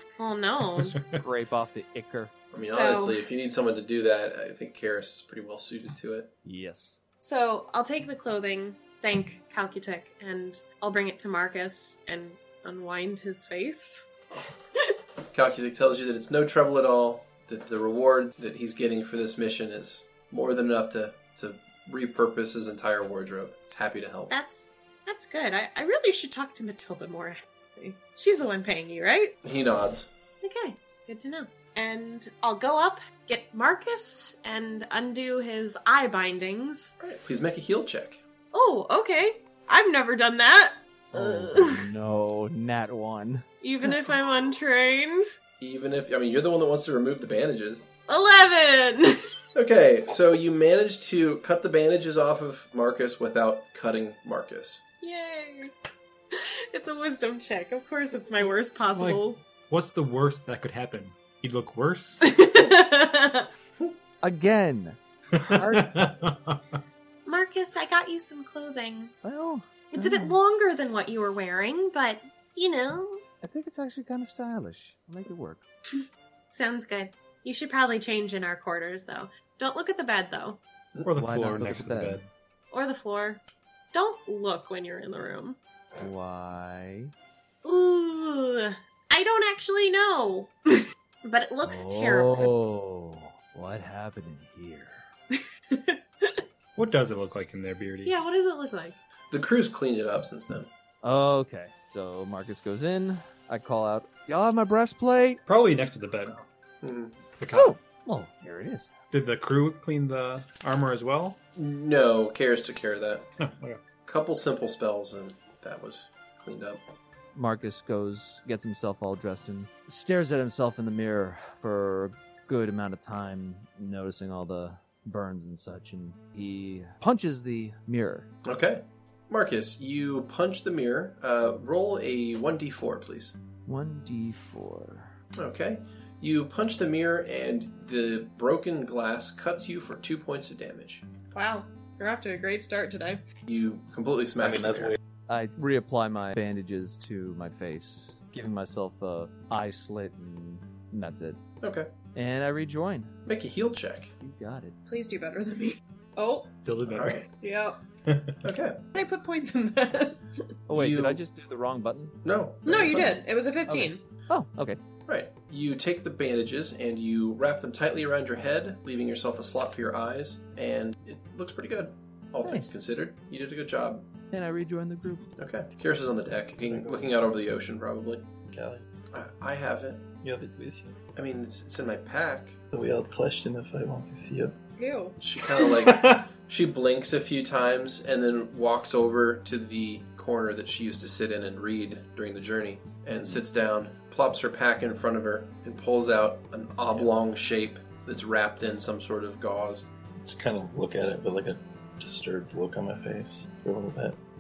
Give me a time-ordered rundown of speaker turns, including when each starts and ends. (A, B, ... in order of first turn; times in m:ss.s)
0:00.2-0:01.0 A
0:00.8-0:01.2 B
0:01.2-0:02.3 C
0:02.5-0:06.3 D
0:02.6-0:03.2 A
0:06.4-0:07.0 C
0:07.2-0:14.1 A
0:15.3-0:24.3 D
0:24.3-0:29.4 A
0:29.4-0:30.1 D
0:30.4-0:36.9 A
0:37.0-0:38.2 D
0:38.5-0:41.8 A
0:41.1-0:43.4 C
0:43.6-0:45.3 A
0:45.6-0:47.8 D
0:48.1-0:49.4 A
0:49.6-0:54.8 D
0:55.0-0:55.7 A
0:56.3-0:59.4 A
0:58.9-1:02.2 B
1:02.2-1:03.5 A
1:04.2-1:06.2 C
1:05.4-1:06.8 B
1:07.3-1:09.1 A
1:09.2-1:10.4 C
1:09.9-1:13.2 A
1:13.4-1:15.6 C
1:15.9-1:20.6 A
1:21.1-1:22.3 B
1:21.2-1:22.2 C
1:22.7-1:23.4 A
1:23.9-1:25.6 A
1:26.0-1:27.1 C
1:27.6-1:32.5 A
1:31.6-1:35.1 C
1:35.3-1:36.4 A
1:36.8-1:38.1 B
1:38.0-1:39.0 A
1:39.3-1:40.7 D
1:41.0-1:45.4 C
1:45.4-1:46.4 B
1:46.8-1:47.2 D
1:47.4-1:47.8 B
1:47.5-1:48.9 C
1:49.1-1:51.4 B
1:51.6-1:53.3 D
1:53.4-1:53.8 B
1:54.0-1:56.8 D
1:57.4-2:08.3 C
2:08.4-2:13.4 D
2:13.6-2:15.2 C
2:15.4-2:21.0 D
2:21.3-2:23.2 A
2:23.5-2:25.0 D
2:24.4-2:25.0 E
2:25.3-2:31.4 C
2:31.6-2:31.9 D
2:32.2-2:33.1 C
2:33.3-2:34.1 D
2:34.2-2:34.8 C
2:34.9-2:36.5 A
2:36.6-2:37.3 B
2:36.9-2:37.2 D
2:37.4-2:37.8 A
2:38.1-2:38.4 B
2:38.4-2:38.8 D
2:38.9-2:40.2 A
2:40.7-2:42.2 C
2:40.7-2:41.2 D
2:42.2-2:43.2 D
2:42.6-2:44.0 A
2:42.8-2:43.1 C
2:43.7-2:44.8 C
2:45.1-2:54.1 D
2:52.4-2:52.8 C
2:54.3-2:55.3 C
2:55.4-2:58.2 D
2:56.7-2:57.0 E
2:58.5-2:58.8 E
2:59.1-3:00.0 D
3:00.2-3:01.0 E
3:01.2-3:02.6 D
3:02.7-3:04.5 E
3:04.8-3:05.2 A
3:05.2-3:19.9 D
3:20.2-3:24.2 E